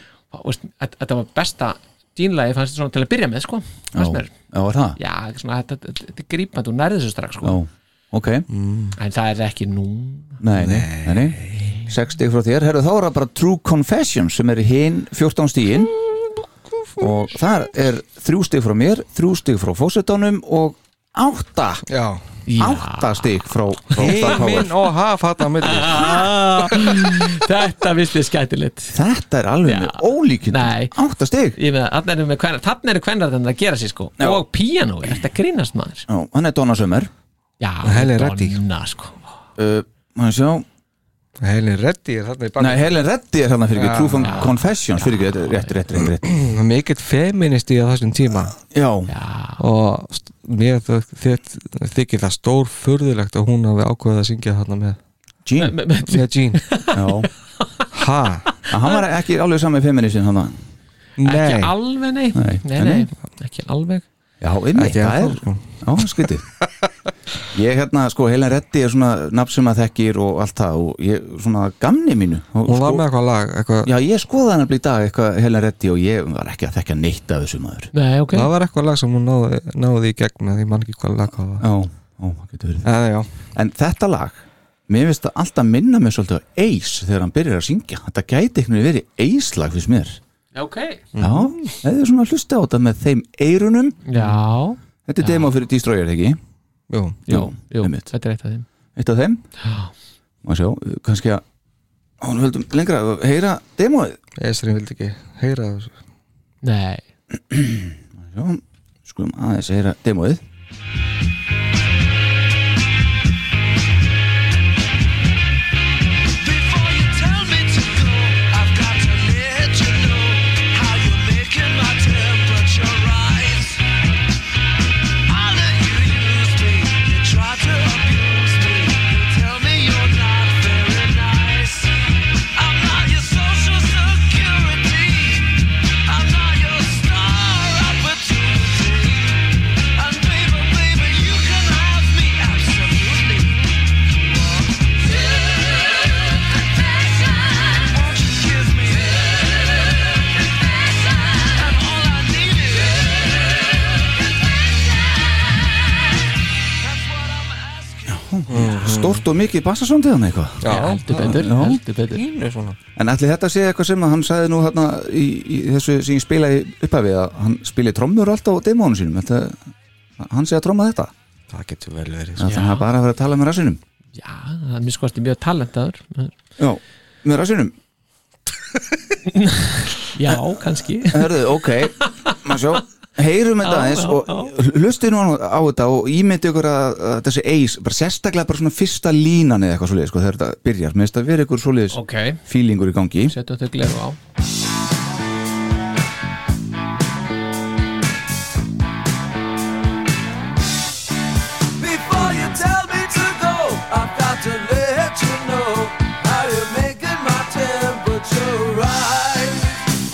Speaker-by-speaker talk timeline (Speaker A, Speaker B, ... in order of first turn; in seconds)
Speaker A: 0.3-4.3, 5.0-7.6, 9.0-10.4, 22.5-23.4, 25.6-29.0, 29.7-30.9, 31.6-36.1, 37.6-39.3, 44.2-45.8, 49.1-49.6, 55.6-57.9, 61.2-64.1, 77.9-78.5, 90.5-91.1, 94.1-95.5, 97.3-98.7, 99.6-99.9, 106.6-107.0, 160.7-162.2, 172.4-172.8, 174.2-176.3, 179.3-181.4, 182.0-182.3, 183.6-184.5, 191.9-192.4, 193.3-194.2
Speaker B: 3.9-5.0, 7.4-8.5, 10.4-15.9, 17.0-21.8, 22.6-24.7, 28.9-31.6, 36.1-37.1, 39.6-40.7, 42.6-46.3, 48.6-49.1, 55.5-55.8, 56.9-57.3, 58.7-60.6, 62.4-63.1, 64.4-66.5, 67.5-73.0, 73.8-77.9, 81.6-82.9, 83.5-90.2, 91.2-94.0, 95.1-96.4, 97.3-98.1, 99.0-99.4, 100.4-101.4, 102.2-104.2, 107.5-110.4, 158.1-161.8, 163.0-169.6, 170.2-171.1, 172.4-173.8, 176.6-177.7, 181.0-193.3
Speaker C: 8.5-9.0, 10.6-11.7, 21.9-22.2, 24.0-26.9, 37.8-38.6, 41.4-42.9, 43.7-44.5, 46.2-48.6, 49.6-55.0, 56.1-56.6, 57.9-58.5, 61.2-61.7, 64.8-66.3, 72.7-73.9, 78.3-81.7, 82.8-83.3, 91.1-91.8, 94.2-94.5, 96.9-97.2, 104.4-105.9, 158.5-159.2, 160.6-162.8, 171.5-172.5
Speaker D: 116.4-123.8, 125.3-131.9, 132.6-146.1, 146.8-153.8, 156.8-158.2, 201.8-209.7